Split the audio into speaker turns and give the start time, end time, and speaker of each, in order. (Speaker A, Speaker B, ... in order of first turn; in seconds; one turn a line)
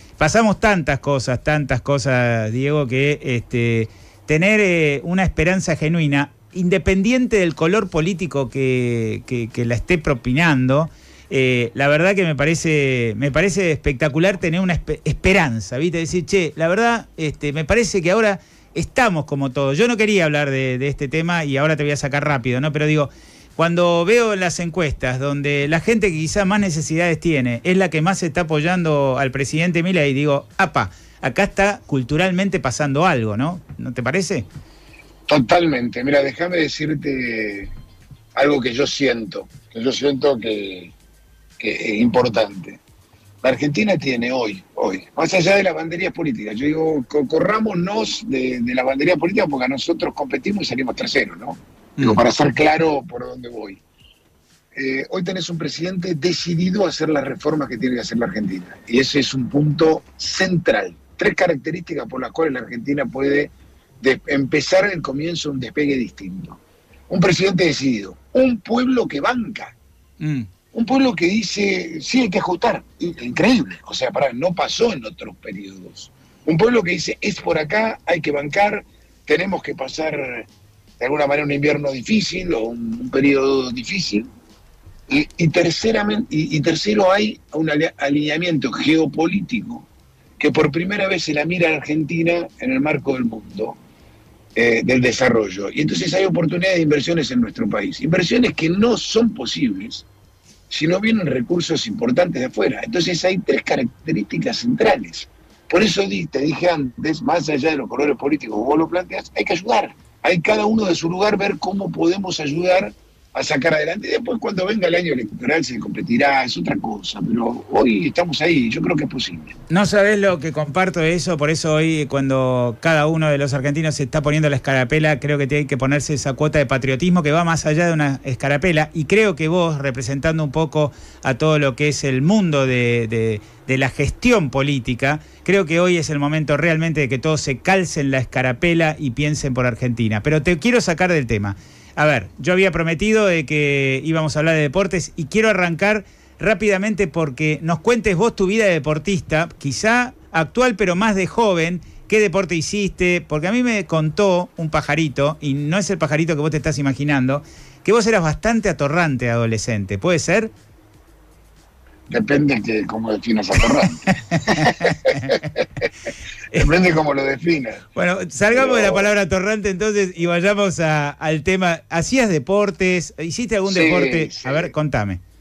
Speaker A: 0.2-34.5
Speaker B: 35.3-37.7
Speaker B: 38.3-40.9
Speaker B: 41.6-42.8
Speaker B: 43.4-53.8
Speaker B: 54.7-69.7
Speaker A: 70.2-70.5
Speaker B: 70.7-80.5
Speaker B: 81.0-84.3
Speaker B: 85.1-89.9
Speaker B: 90.4-93.8
Speaker B: 94.5-100.0
Speaker B: 100.7-119.5
Speaker A: 119.7-160.5
Speaker B: 162.1-165.8
Speaker A: 164.3-165.3
Speaker B: 166.5-167.8
Speaker A: 167.9-175.2
Speaker B: 168.5-169.1
Speaker B: 173.7-174.7